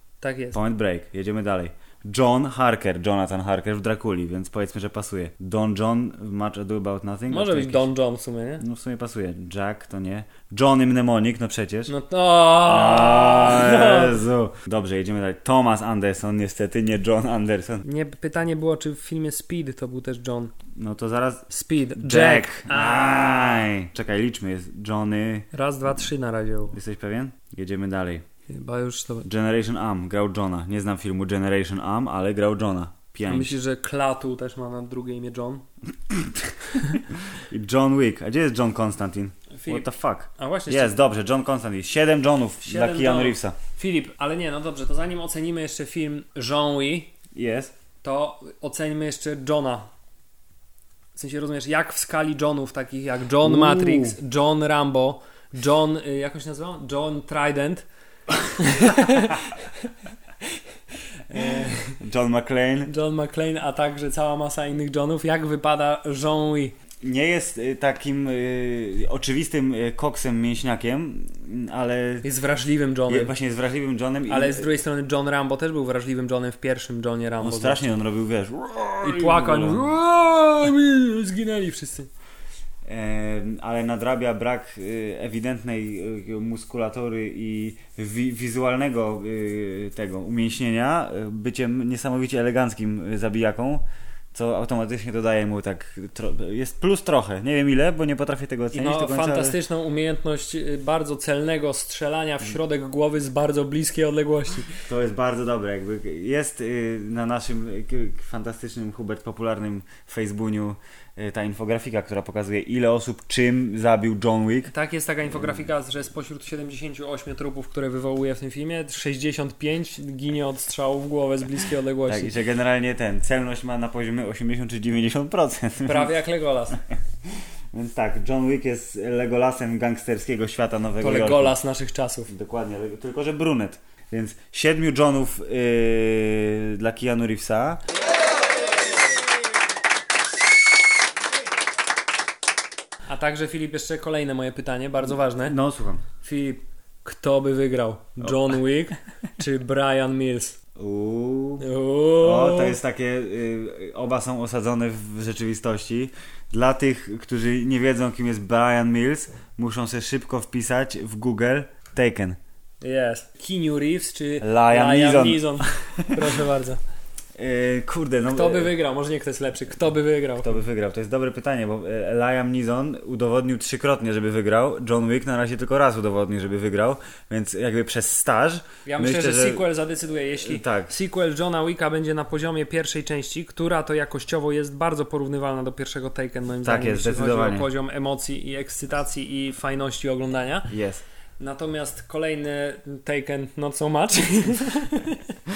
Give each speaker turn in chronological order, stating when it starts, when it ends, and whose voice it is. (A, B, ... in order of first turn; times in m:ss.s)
0:00.2-0:00.6 A
0:00.5-0:07.9 B
0:07.3-0:08.6 A
0:08.6-0:11.9 B
0:11.9-0:14.2 A
0:12.6-0:17.8 B
0:17.8-0:20.5 A
0:20.8-0:25.5 B
0:21.5-0:23.6 A
0:25.5-0:26.8 A
0:26.7-0:28.2 B
0:28.5-0:29.3 A
0:29.2-0:33.5 B
0:33.3-0:35.6 A
0:37.4-0:43.6 B
0:39.6-0:41.0 A
0:42.6-0:47.1 A
0:47.4-0:47.7 B
0:48.0-0:49.9 A
0:51.1-0:57.9 A
0:53.4-0:54.2 B
0:58.6-0:59.9 A
1:01.3-1:02.0 A
1:02.0-1:02.9 B
1:02.9-1:06.8 A
1:07.0-1:12.3 B
1:12.2-1:13.3 A
1:13.1-1:14.8 B
1:14.3-1:17.8 A
1:17.4-1:19.9 B
1:19.0-1:22.1 A
1:22.8-1:39.6 B
1:38.7-1:44.8 A
1:44.9-1:54.7 B
1:54.7-2:02.3 A
2:02.1-2:06.1 B
2:05.8-2:06.8 A
2:07.7-2:11.6 B
2:11.0-2:12.3 A
2:12.3-2:17.8 B
2:23.1-2:25.6 A
2:25.3-2:26.0 B
2:26.2-2:30.6 A
2:30.8-2:31.7 B
2:31.6-2:32.8 A
2:32.2-2:42.4 B
2:42.8-2:46.8 A
2:44.4-2:46.2 B
2:47.4-2:48.7 B
2:48.3-2:50.6 A
2:50.4-2:59.7 B
2:58.9-3:10.7 A
3:00.4-3:00.9 B
3:06.6-3:07.7 B
3:10.7-3:11.0 B
3:11.4-3:15.4 A